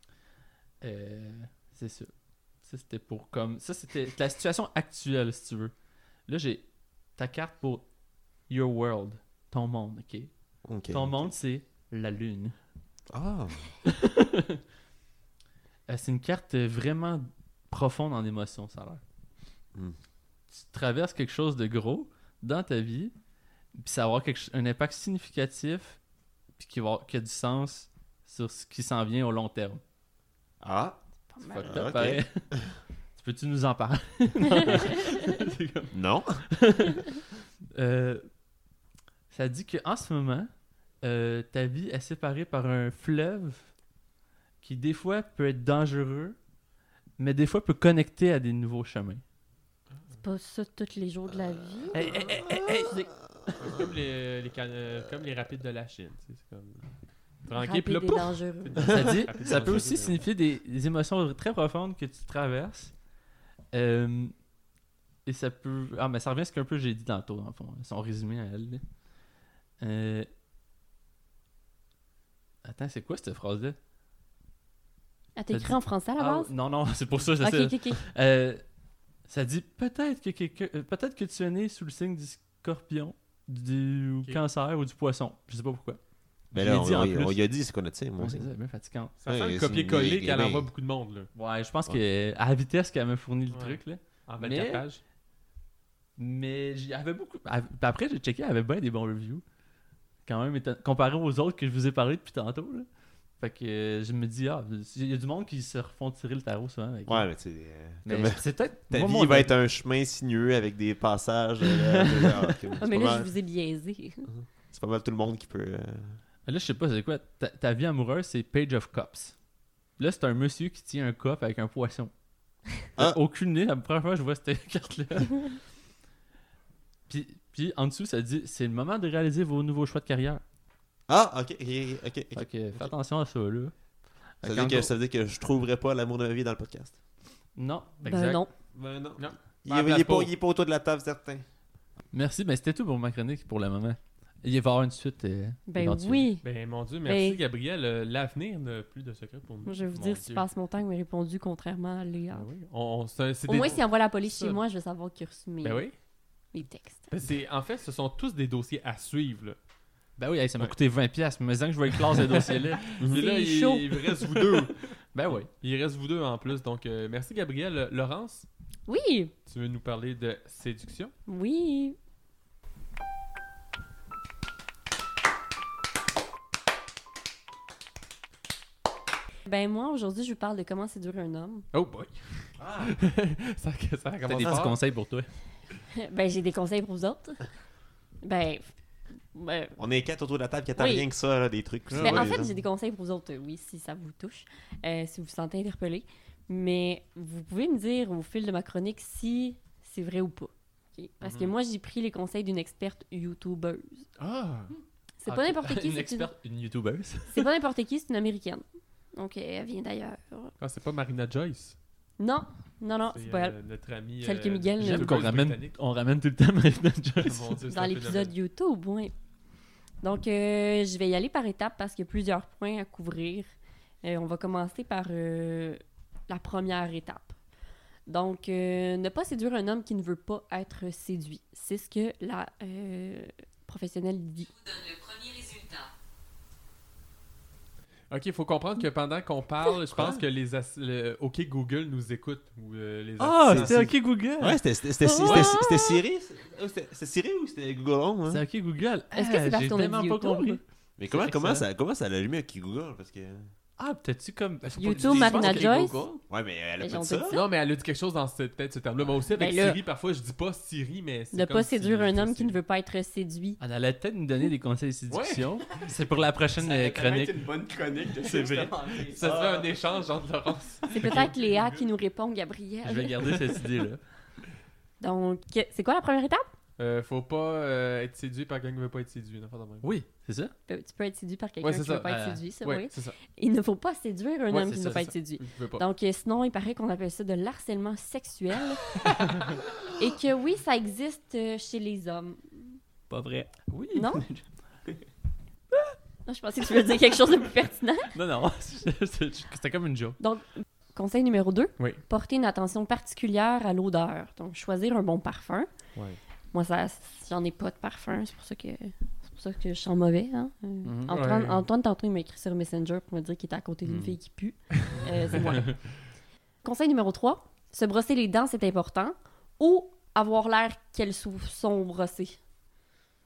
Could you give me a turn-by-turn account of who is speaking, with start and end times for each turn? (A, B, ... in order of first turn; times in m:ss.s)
0:00.8-0:02.1 A
0:02.6-0:05.7 A
0:06.3-0:06.6 A
0:07.2-0:07.8 A
0:08.5-0:10.3 A
0:10.6-0:11.3 B
0:10.9-0:12.5 A
0:13.1-0:13.7 B
0:13.8-0:14.6 A
0:15.9-0:19.0 A
0:20.5-0:23.1 A
0:23.8-0:26.0 A
0:26.6-0:29.8 A
0:30.6-0:31.0 B
0:31.3-0:31.9 C
0:31.4-0:32.5 A
0:31.6-0:32.7 B
0:33.2-0:35.9 A
0:35.9-0:36.4 B
0:36.5-0:37.2 A
0:37.7-0:38.2 A
0:39.3-0:40.5 A
0:41.0-0:43.7 A
0:44.6-0:46.4 A
0:47.2-0:49.2 A
0:50.2-0:52.0 C
0:51.9-0:53.7 A
0:53.6-0:56.8 D
0:57.4-1:00.2 D
0:57.5-0:59.0 C
0:58.9-1:02.9 A
1:03.7-1:04.3 A
1:05.2-1:08.8 A
1:09.8-1:10.3 A
1:12.6-1:13.8 A
1:15.4-1:16.5 C
1:15.5-1:18.6 A
1:17.4-1:18.0 C
1:19.3-1:26.0 A
1:26.5-1:27.4 A
1:26.5-1:28.4 B
1:28.2-1:29.1 A
1:29.2-1:31.3 D
1:29.3-1:30.7 B
1:31.3-1:34.8 A
1:33.5-1:35.0 D
1:36.2-1:39.4 A
1:40.2-1:42.9 A
1:43.4-1:47.3 A
1:47.1-1:53.3 B
1:48.0-1:49.5 A
1:52.0-1:52.5 A
1:52.8-1:54.3 C
1:54.3-1:56.2 B
1:56.4-1:59.3 A
2:00.0-2:02.1 A
2:03.0-2:05.6 A
2:07.1-2:10.4 A
2:11.1-2:12.9 B
2:12.3-2:13.7 A
2:14.4-2:14.9 A
2:14.4-2:17.0 B
2:17.6-2:18.4 A
2:18.1-2:18.5 C
2:18.7-2:21.4 B
2:19.2-2:20.3 D
2:22.1-2:26.2 A
2:25.7-2:26.4 C
2:26.4-2:29.7 D
2:27.0-2:27.4 C
2:29.6-2:32.5 C
2:29.9-2:30.4 A
2:32.3-2:34.6 D
2:33.5-2:35.9 C
2:35.6-2:35.9 D
2:36.5-2:37.1 C
2:37.1-2:39.6 D
2:40.2-2:45.5 A
2:42.2-2:48.5 D
2:43.1-2:43.9 C
2:48.9-2:49.3 C
2:49.5-2:51.1 D
2:51.3-2:52.0 C
2:59.4-3:01.6 C
3:01.7-3:04.8 D
3:02.6-3:02.9 B
3:04.2-3:05.3 A
3:05.9-3:07.4 C
3:08.2-3:08.7 C
3:09.3-3:09.8 C
3:09.8-3:12.5 B
3:10.8-3:11.0 C
3:11.9-3:12.3 D
3:12.0-3:24.0 C
3:21.2-3:21.5 D
3:24.2-3:24.7 D
3:25.2-3:26.3 C
3:25.3-3:27.5 A
3:27.3-3:28.6 C
3:29.1-3:30.5 C
3:30.6-3:31.8 D
3:32.2-3:33.6 C
3:33.1-3:35.7 D
3:34.2-3:35.2 C
3:34.8-3:37.6 A
3:37.2-3:38.3 D
3:37.7-3:39.1 C
3:40.0-3:43.5 C
3:44.0-3:47.3 C
3:48.1-3:54.7 C
3:58.1-4:03.8 D
3:59.9-4:00.2 B
4:03.2-4:04.6 A
4:03.4-4:08.4 B
4:05.0-4:06.0 C
4:05.2-4:05.6 D
4:08.3-4:11.6 A
4:09.1-4:10.6 C
4:11.0-4:13.5 B
4:13.8-4:15.7 A
4:14.8-4:16.0 C
4:14.8-4:16.2 E
4:16.3-4:17.4 B
4:16.8-4:17.4 C
4:17.3-4:22.6 D
4:19.3-4:19.8 C
4:21.3-4:23.6 C
4:23.6-4:27.4 A
4:25.1-4:25.6 D
4:26.6-4:29.5 E
4:28.5-4:31.6 D
4:30.9-4:33.6 C
4:32.8-4:34.0 A
4:35.0-4:36.5 C
4:36.8-4:39.9 D
4:39.8-4:40.5 A
4:40.7-4:49.3 C
4:41.6-4:43.2 D
4:42.0-4:42.4 A
4:44.5-4:45.1 A
4:44.6-4:45.8 D
4:49.9-4:52.8 C
4:53.1-4:53.6 E
4:53.7-4:54.1 A
4:53.9-4:54.2 C
4:54.1-4:55.0 E
4:56.2-4:58.1 C
4:58.1-5:00.2 A
5:00.2-5:05.7 C
5:06.5-5:15.8 C
5:10.8-5:11.2 A
5:11.1-5:11.6 D
5:13.8-5:14.1 A
5:16.6-5:22.4 C